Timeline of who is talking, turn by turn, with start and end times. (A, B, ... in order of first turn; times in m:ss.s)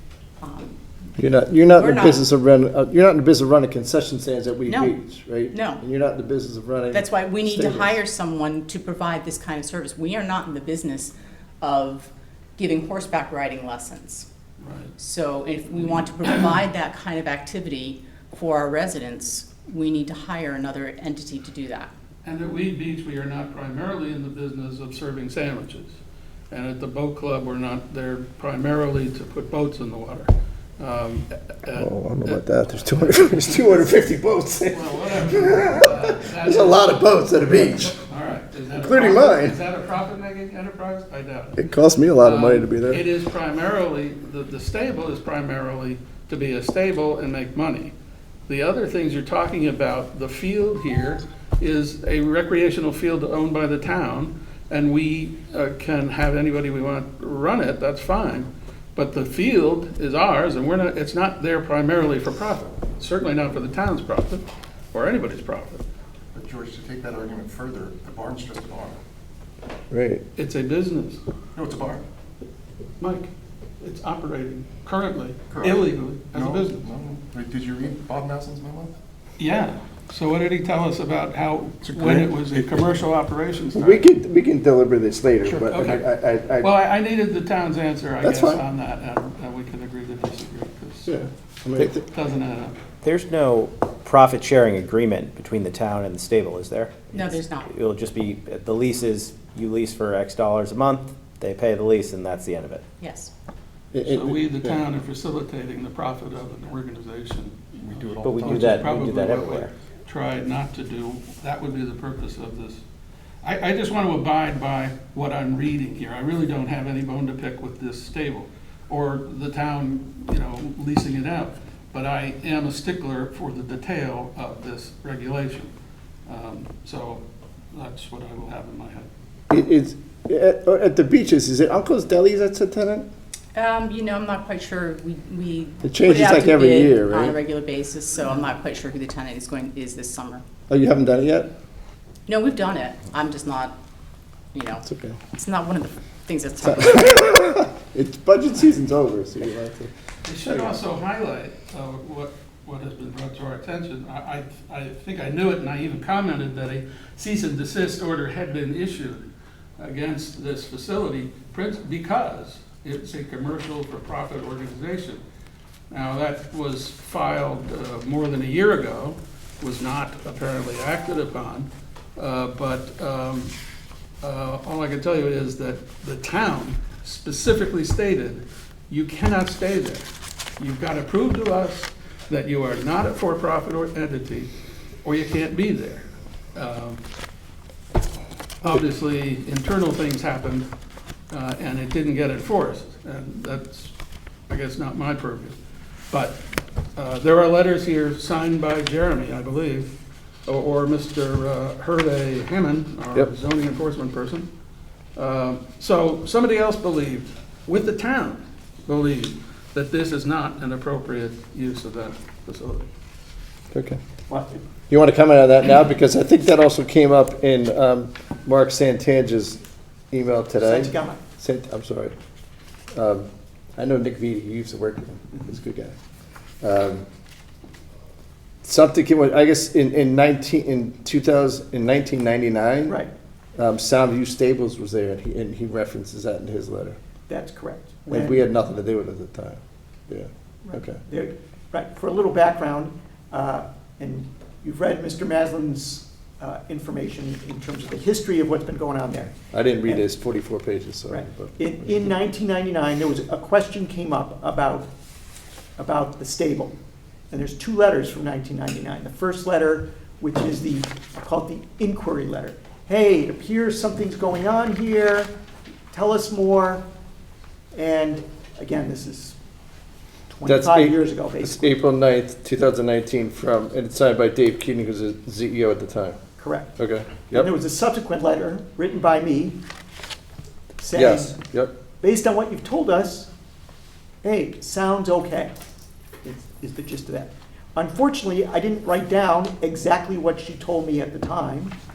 0:00.4-0:00.8 A
0:01.2-0:08.0 B
0:01.7-0:02.2 A
0:04.7-0:05.0 A
0:05.5-0:05.8 A
0:06.9-0:14.3 A
0:14.6-0:14.9 C
0:15.0-0:21.9 A
0:22.2-0:26.0 C
0:26.5-0:33.9 C
0:31.8-0:38.0 B
0:34.6-0:41.6 C
0:38.8-0:39.6 B
0:41.6-0:43.0 B
0:42.2-0:47.9 C
0:48.5-1:05.8 C
1:06.3-1:09.0 D
1:09.9-1:10.2 B
1:10.4-1:11.2 C
1:11.6-1:12.0 D
1:13.0-1:13.3 C
1:13.8-1:16.8 C
1:15.5-1:19.0 D
1:19.4-1:24.0 C
1:21.9-1:22.9 B
1:23.7-1:26.7 B
1:25.4-1:26.0 C
1:26.6-1:31.1 C
1:28.2-1:28.6 B
1:31.1-1:32.0 B
1:31.8-1:32.8 C
1:33.0-1:42.8 E
1:37.1-1:37.7 A
1:43.0-1:43.3 A
1:43.9-1:44.8 B
1:44.0-1:52.8 C
1:47.9-1:48.8 D
1:48.2-1:49.7 E
1:53.4-2:05.7 C
2:06.3-2:09.1 C
2:09.5-2:13.1 B
2:13.5-2:20.4 A
2:15.8-2:17.4 B
2:20.7-2:21.5 B
2:22.3-2:23.8 A
2:24.5-2:27.3 A
2:24.8-2:25.2 B
2:26.6-2:29.9 B
2:30.2-2:39.3 C
2:30.4-2:30.8 B
2:39.8-2:45.2 C
2:45.9-2:53.5 C
2:54.2-3:00.1 C
3:00.6-3:04.5 C
3:05.0-3:07.0 C
3:08.6-3:10.7 C
3:11.3-3:13.9 C
3:14.5-3:15.6 C
3:16.1-3:16.4 C
3:17.0-3:20.0 C
3:20.5-3:24.5 C
3:25.2-3:32.9 C
3:33.7-3:34.0 B
3:34.3-3:34.6 F
3:34.9-3:42.2 B
3:40.6-3:41.2 F
3:42.9-3:45.9 B
3:46.6-3:47.1 B
3:48.6-3:53.0 B
3:53.6-3:57.0 B
3:57.3-3:58.4 F
3:58.1-4:01.0 B
4:00.6-4:09.4 F
4:09.5-4:12.1 B
4:11.1-4:14.9 F
4:15.8-4:16.8 F
4:17.3-4:25.3 F
4:25.9-4:26.8 F
4:27.7-4:29.4 F
4:30.3-4:31.8 F
4:30.4-4:36.2 B
4:36.4-4:36.8 F
4:36.8-4:37.5 B
4:37.3-4:39.6 F
4:40.8-4:41.4 F
4:40.9-4:41.7 B
4:42.0-4:43.3 F
4:44.2-4:45.5 F
4:46.2-4:51.8 F